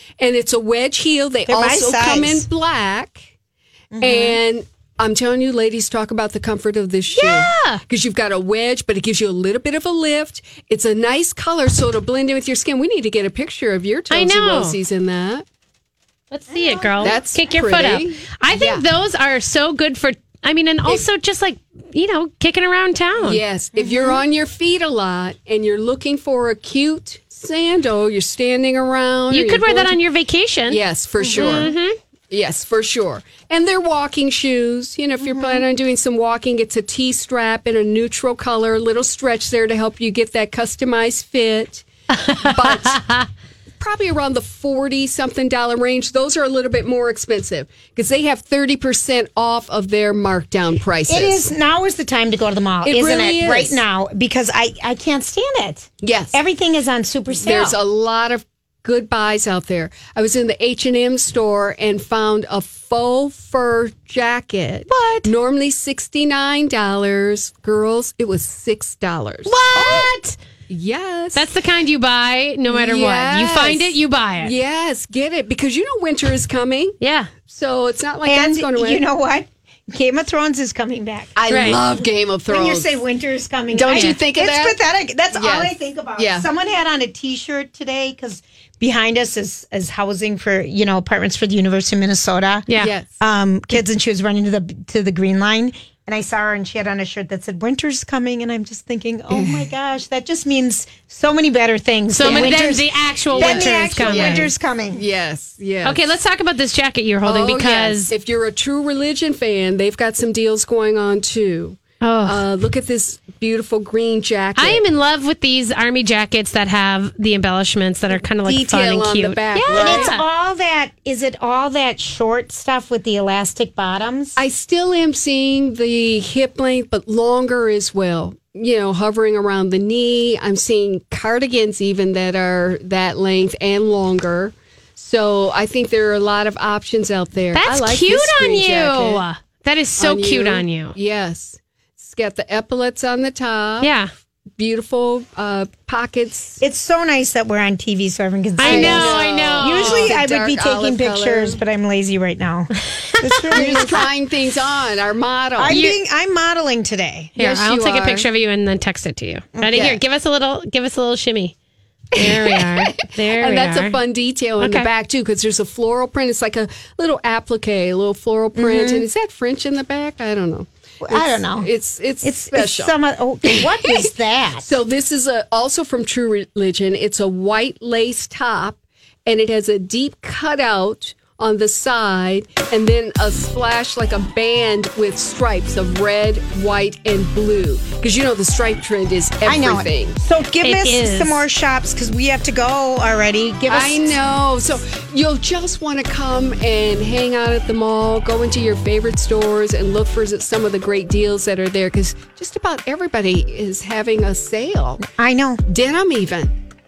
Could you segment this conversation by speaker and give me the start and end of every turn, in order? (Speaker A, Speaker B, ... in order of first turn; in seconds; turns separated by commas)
Speaker A: 0.2-3.3, Speaker B: 1.5-2.5, Speaker B: 3.9-4.4, Speaker A: 4.0-15.4, Speaker C: 7.2-7.8, Speaker C: 14.1-14.8, Speaker C: 16.3-23.4, Speaker A: 16.5-18.9, Speaker A: 23.2-30.0, Speaker B: 23.8-24.2, Speaker C: 29.3-30.8, Speaker A: 30.7-31.7, Speaker C: 31.3-31.9, Speaker A: 32.3-41.8, Speaker C: 42.1-43.2, Speaker A: 42.4-43.1, Speaker A: 43.8-51.5, Speaker B: 51.1-57.8, Speaker A: 52.8-53.8, Speaker A: 56.0-56.4, Speaker A: 57.3-70.1, Speaker C: 64.9-65.3, Speaker C: 69.5-70.4, Speaker B: 69.8-70.0, Speaker A: 70.7-71.5, Speaker C: 71.3-74.5, Speaker A: 72.7-79.0, Speaker C: 77.0-77.3, Speaker B: 78.2-81.3, Speaker A: 81.3-83.0, Speaker C: 81.5-81.8, Speaker B: 82.5-92.7, Speaker A: 83.7-84.8, Speaker C: 83.9-84.2, Speaker A: 85.3-86.5, Speaker A: 92.7-93.2, Speaker B: 93.2-105.0, Speaker A: 99.3-99.7, Speaker C: 102.1-104.5, Speaker A: 102.2-102.8, Speaker A: 103.3-106.2, Speaker C: 105.8-108.1, Speaker A: 107.2-114.8, Speaker C: 112.0-112.4, Speaker C: 114.6-120.2, Speaker A: 118.1-120.2, Speaker B: 119.8-124.4, Speaker A: 124.4-139.2, Speaker C: 137.6-140.9, Speaker A: 140.0-143.9, Speaker C: 143.8-144.1, Speaker A: 144.6-146.6, Speaker B: 146.6-154.0, Speaker C: 148.6-150.1, Speaker A: 148.6-151.6, Speaker C: 153.4-154.0, Speaker A: 153.5-155.8, Speaker B: 155.6-157.4, Speaker C: 155.7-155.9, Speaker C: 157.4-161.5, Speaker A: 157.4-158.3, Speaker B: 159.6-159.8, Speaker A: 159.7-160.0, Speaker C: 162.2-164.0, Speaker A: 162.2-174.1, Speaker C: 164.6-164.9, Speaker B: 168.6-169.1, Speaker B: 171.0-171.7, Speaker B: 172.2-174.7, Speaker A: 174.6-190.2, Speaker B: 189.4-194.1, Speaker C: 190.6-191.4, Speaker A: 193.7-205.0, Speaker B: 205.1-205.6, Speaker A: 205.7-206.5